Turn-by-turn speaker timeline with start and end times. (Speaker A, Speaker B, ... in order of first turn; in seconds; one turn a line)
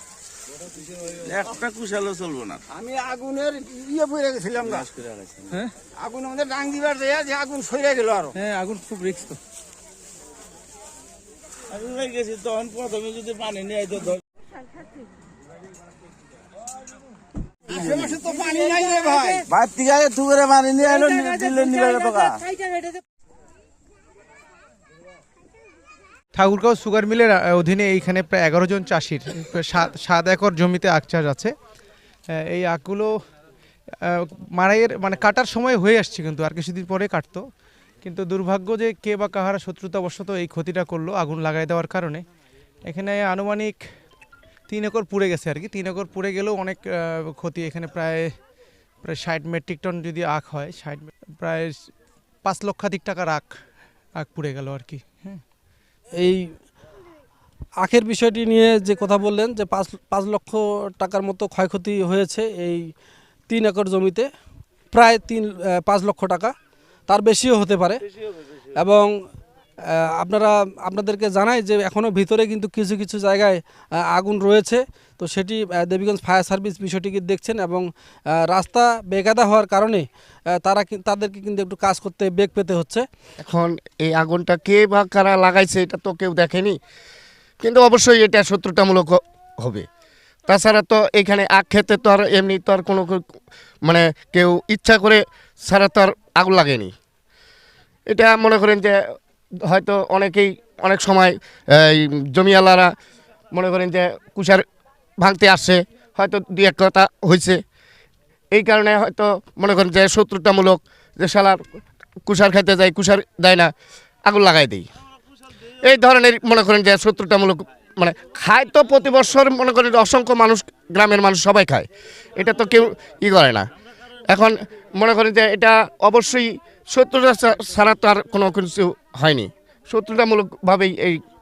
Speaker A: 1.2-2.6
Speaker B: 2.7-4.8
Speaker A: 4.6-5.6
Speaker B: 6.0-8.3
Speaker C: 8.4-9.4
Speaker A: 11.7-14.2
Speaker A: 17.7-18.2
Speaker B: 17.7-19.5
Speaker A: 19.5-22.5
Speaker C: 26.4-31.5
Speaker C: 32.3-33.1
Speaker C: 34.0-37.4
Speaker C: 38.0-42.2
Speaker C: 42.9-43.8
Speaker C: 44.7-48.3
Speaker C: 49.0-51.9
Speaker C: 52.5-53.5
Speaker C: 54.2-55.4
Speaker D: 56.2-56.5
Speaker D: 57.8-62.9
Speaker D: 63.5-64.3
Speaker D: 64.9-66.5
Speaker D: 67.1-68.0
Speaker D: 68.7-69.2
Speaker D: 69.8-83.1
Speaker E: 83.4-86.8
Speaker E: 87.6-89.9
Speaker E: 90.5-93.2
Speaker E: 93.9-96.9
Speaker E: 98.1-99.0
Speaker E: 99.7-102.9
Speaker E: 103.5-104.6
Speaker E: 105.2-107.6
Speaker E: 108.5-111.6
Speaker E: 112.3-113.7
Speaker E: 114.3-114.9
Speaker E: 115.9-123.7
Speaker E: 124.3-131.2